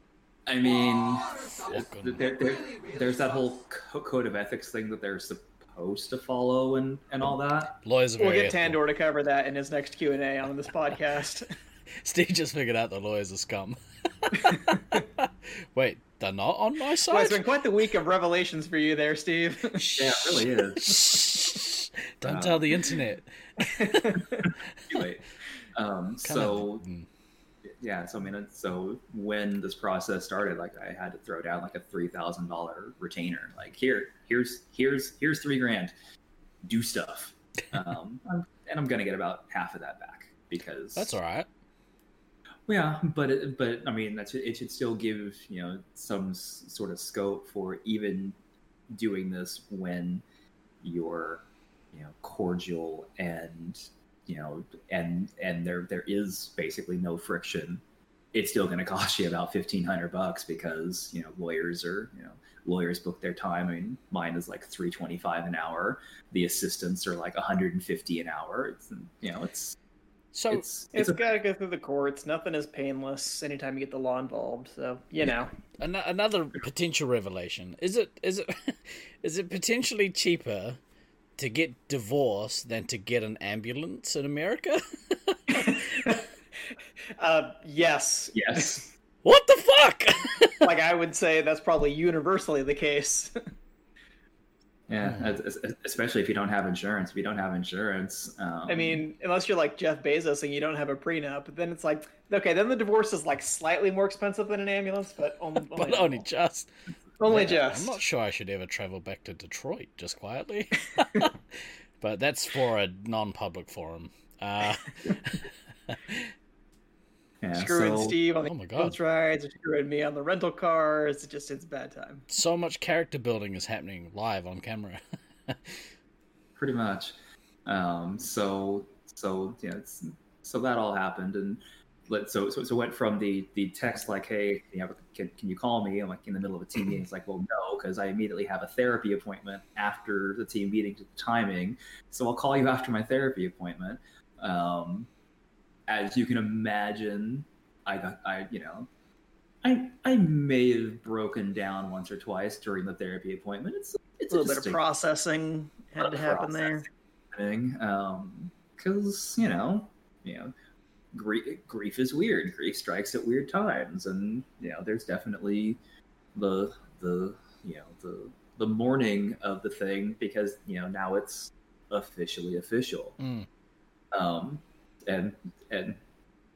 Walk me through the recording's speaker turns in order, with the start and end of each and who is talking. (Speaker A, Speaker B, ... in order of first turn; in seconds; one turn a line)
Speaker A: 0.5-7.8
Speaker B: 1.7-2.2
Speaker B: 7.8-8.8
Speaker C: 8.2-11.5
Speaker B: 12.0-17.4
Speaker C: 17.1-19.9
Speaker B: 19.8-24.2
Speaker A: 19.9-21.1
Speaker A: 22.2-22.7
Speaker C: 23.7-24.2
Speaker A: 24.4-26.9
Speaker B: 26.2-27.1
Speaker A: 27.6-35.9
Speaker A: 36.6-41.2
Speaker B: 41.0-41.5
Speaker A: 42.7-48.4
Speaker A: 48.9-50.2
Speaker A: 50.8-69.8
Speaker B: 70.3-70.6
Speaker A: 70.5-71.4
Speaker C: 70.9-75.5
Speaker B: 75.8-80.8
Speaker B: 81.4-86.0
Speaker C: 85.5-86.3
Speaker C: 87.2-88.8
Speaker A: 88.3-88.9
Speaker B: 89.2-90.7
Speaker C: 90.6-93.4
Speaker A: 94.9-99.0
Speaker C: 98.7-106.2
Speaker B: 105.7-106.7
Speaker C: 107.2-108.0
Speaker B: 107.2-116.3
Speaker A: 117.4-118.2
Speaker C: 117.5-122.2
Speaker B: 118.5-118.9
Speaker B: 122.3-125.9
Speaker A: 126.6-127.1
Speaker A: 127.7-145.1
Speaker A: 145.9-148.9
Speaker A: 149.6-154.8
Speaker C: 154.3-156.9
Speaker A: 156.0-160.5
Speaker A: 161.1-165.8
Speaker A: 166.3-173.2
Speaker B: 173.2-173.5
Speaker A: 174.1-176.0